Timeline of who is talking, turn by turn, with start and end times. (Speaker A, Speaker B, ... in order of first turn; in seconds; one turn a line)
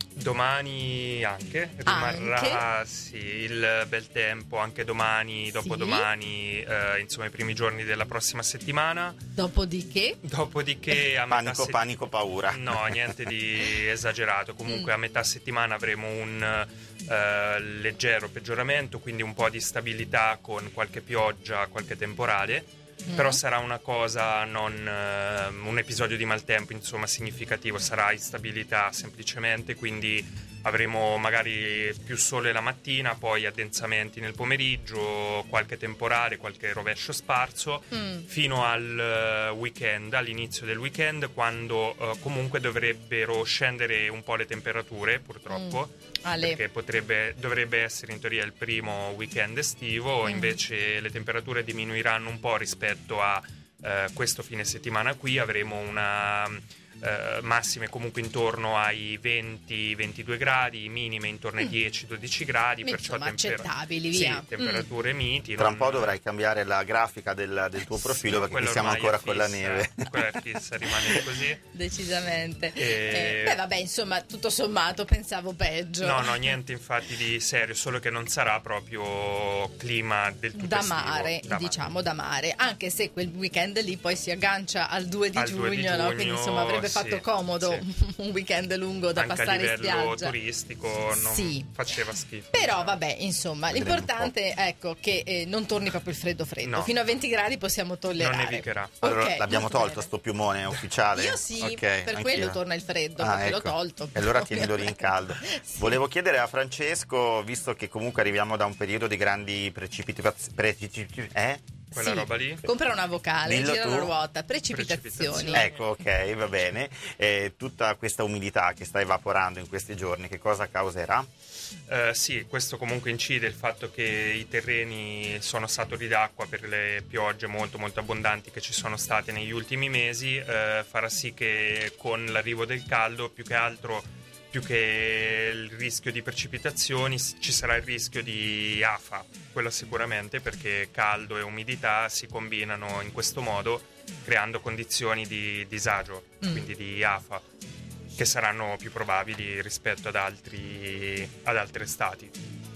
Speaker A: 0.1-9.2
Speaker B: 1.9-2.7
Speaker B: 5.6-6.1
Speaker B: 9.4-10.2
Speaker A: 10.2-11.8
Speaker C: 11.3-13.2
Speaker A: 12.5-66.2
Speaker B: 14.7-14.9
Speaker B: 23.1-23.4
Speaker B: 37.9-38.3
Speaker B: 45.5-46.6
Speaker B: 50.2-50.6
Speaker B: 62.8-64.9
Speaker C: 65.6-70.1
Speaker A: 68.0-71.7
Speaker B: 71.7-76.5
Speaker A: 72.8-73.6
Speaker A: 76.0-81.8
Speaker B: 80.5-90.3
Speaker A: 85.3-87.8
Speaker A: 89.2-93.0
Speaker B: 91.1-91.7
Speaker B: 92.5-100.1
Speaker C: 93.7-94.3
Speaker A: 96.6-96.9
Speaker A: 98.2-98.9
Speaker C: 99.0-102.6
Speaker B: 101.1-106.0
Speaker C: 103.2-111.7
Speaker A: 111.9-112.6
Speaker B: 111.9-115.7
Speaker C: 113.4-114.1
Speaker A: 114.7-115.8
Speaker C: 115.5-121.3
Speaker A: 121.9-147.4
Speaker B: 146.4-146.7
Speaker A: 148.2-152.3